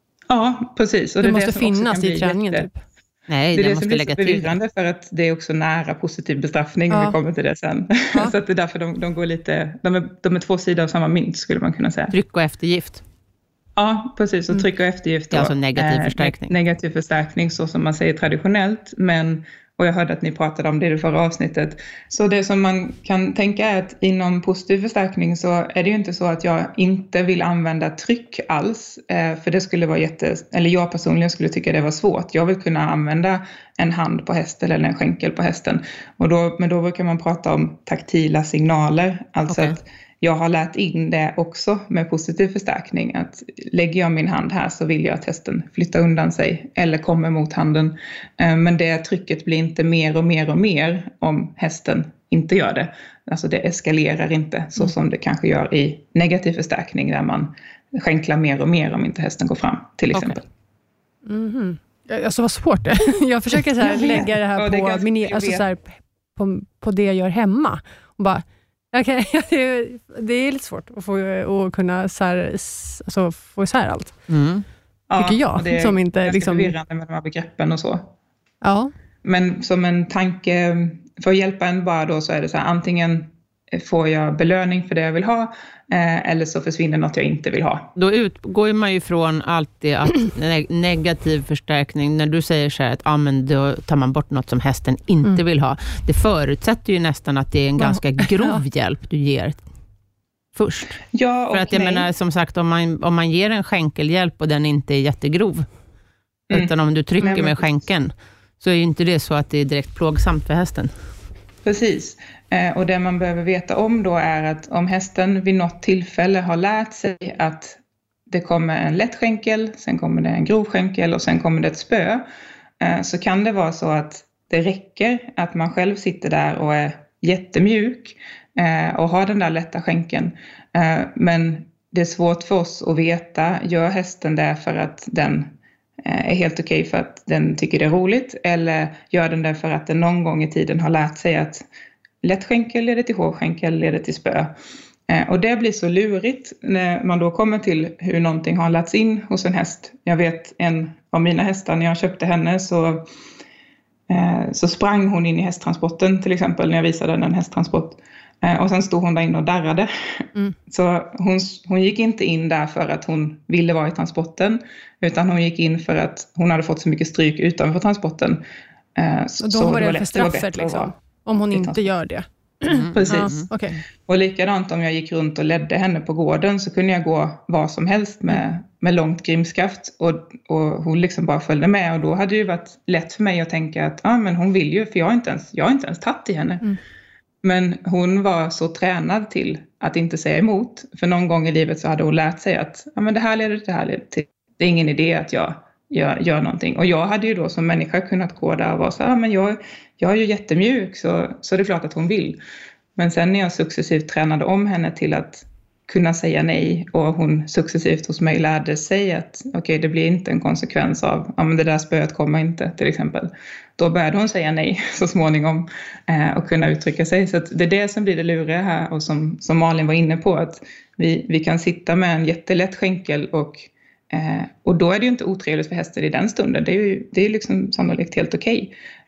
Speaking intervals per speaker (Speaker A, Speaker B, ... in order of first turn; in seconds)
Speaker A: 0.3-2.7, 3.5-12.1, 13.8-60.4, 63.8-65.7, 75.1-78.1, 79.2-87.9, 101.1-102.0, 107.2-107.6, 111.6-122.2, 122.8-141.6, 142.2-144.5, 145.1-153.1, 154.1-168.4, 168.9-170.9, 171.5-171.9, 172.9-173.3, 174.1-186.7, 187.4-202.4, 202.9-228.7
Speaker B: 1.2-2.8, 6.9-7.2, 61.2-74.2, 75.2-76.7, 78.6-78.9, 97.8-98.6, 169.4-173.8
Speaker C: 3.3-4.5, 12.1-13.0, 15.3-16.5, 39.5-39.8, 60.1-60.4, 74.3-74.6, 88.0-99.6, 100.5-101.0, 101.5-105.7, 106.5-110.9, 172.7-173.5